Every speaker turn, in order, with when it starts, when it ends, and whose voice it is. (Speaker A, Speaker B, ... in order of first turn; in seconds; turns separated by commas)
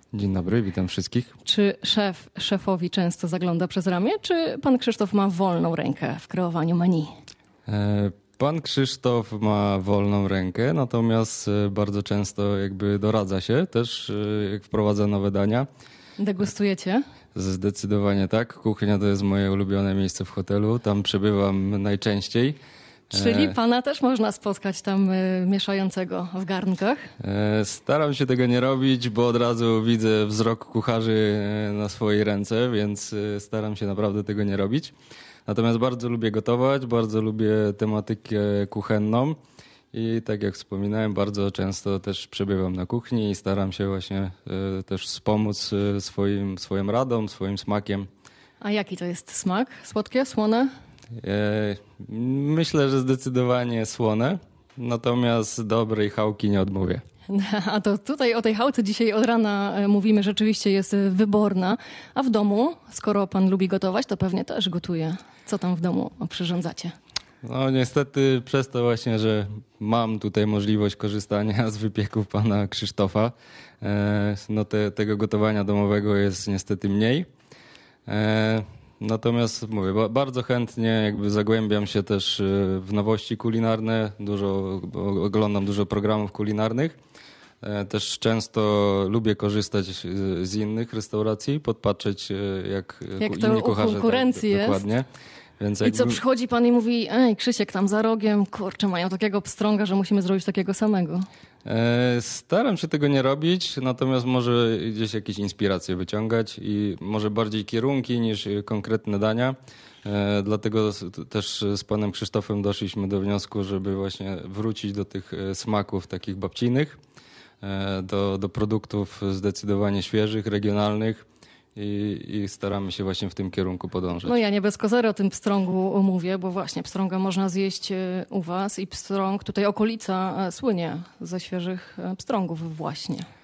Speaker A: 0.1-1.4, Speaker B: 1.4-7.1, Speaker A: 7.7-15.7, Speaker B: 16.2-17.0, Speaker A: 17.4-22.6, Speaker A: 23.1-23.6, Speaker B: 23.1-27.0, Speaker A: 27.2-34.9, Speaker A: 35.5-39.4, Speaker A: 39.9-48.1, Speaker B: 48.6-50.7, Speaker A: 51.2-57.0, Speaker B: 57.3-66.9, Speaker A: 67.4-77.3, Speaker A: 78.1-87.0, Speaker A: 87.6-95.1, Speaker B: 93.2-94.8, Speaker A: 95.6-96.2, Speaker B: 95.8-101.2, Speaker A: 101.7-117.0, Speaker A: 117.6-124.4, Speaker B: 124.3-133.3